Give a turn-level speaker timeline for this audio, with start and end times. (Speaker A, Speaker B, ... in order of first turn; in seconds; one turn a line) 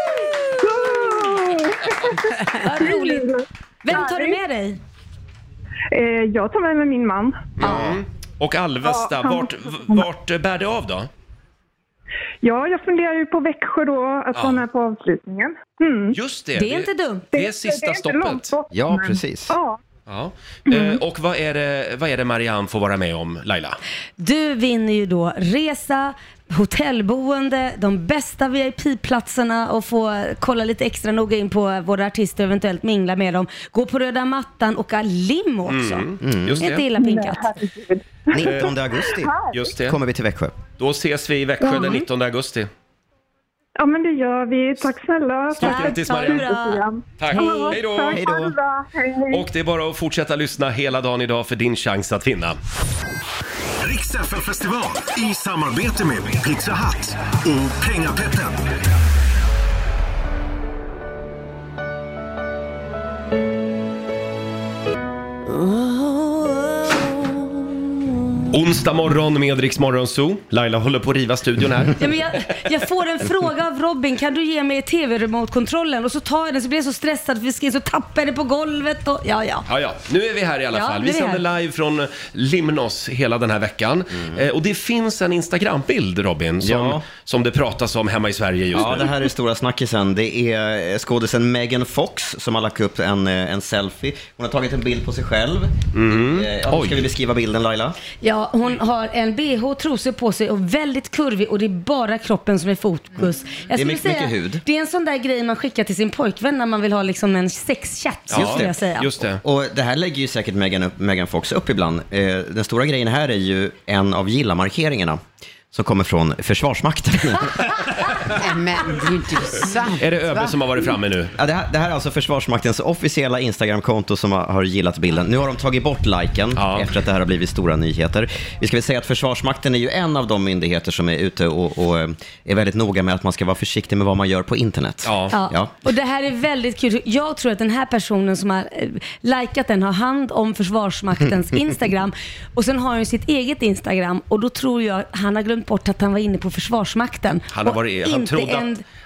Speaker A: 0.6-4.4
Speaker B: 0.6-1.4
Speaker B: 2.3-3.3
Speaker B: 3.8-4.8
Speaker A: 5.9-7.7
Speaker C: 7.6-11.1
Speaker B: 7.6-7.9
Speaker A: 8.8-10.1
Speaker A: 12.4-16.1
Speaker C: 14.3-14.6
Speaker C: 16.1-18.5
Speaker B: 16.6-17.3
Speaker A: 17.4-19.8
Speaker D: 18.7-19.5
Speaker C: 20.1-23.8
Speaker B: 24.2-36.1
Speaker C: 35.7-36.9
Speaker D: 36.2-36.6
Speaker B: 36.6-37.5
Speaker A: 37.0-39.5
Speaker D: 38.3-40.5
Speaker C: 39.5-40.0
Speaker C: 40.8-42.7
Speaker B: 41.6-42.0
Speaker A: 41.7-41.9
Speaker A: 43.8-49.4
Speaker C: 45.5-46.5
Speaker B: 45.6-46.8
Speaker C: 47.2-48.2
Speaker B: 47.3-47.8
Speaker D: 48.1-48.5
Speaker C: 49.3-52.6
Speaker E: 53.8-58.7
Speaker B: 65.6-67.4
Speaker C: 68.5-72.1
Speaker B: 72.0-79.7
Speaker C: 79.7-89.1
Speaker B: 80.7-81.4
Speaker D: 86.6-87.0
Speaker D: 88.7-98.0
Speaker C: 95.9-97.1
Speaker B: 98.2-109.1
Speaker D: 103.7-104.6
Speaker C: 108.3-109.4
Speaker D: 108.3-108.7
Speaker D: 109.4-115.2
Speaker D: 115.7-117.9
Speaker F: 118.3-120.6
Speaker C: 120.0-121.3
Speaker D: 121.3-135.7
Speaker C: 126.5-126.9
Speaker C: 135.0-135.3
Speaker B: 135.3-148.8
Speaker C: 147.5-148.7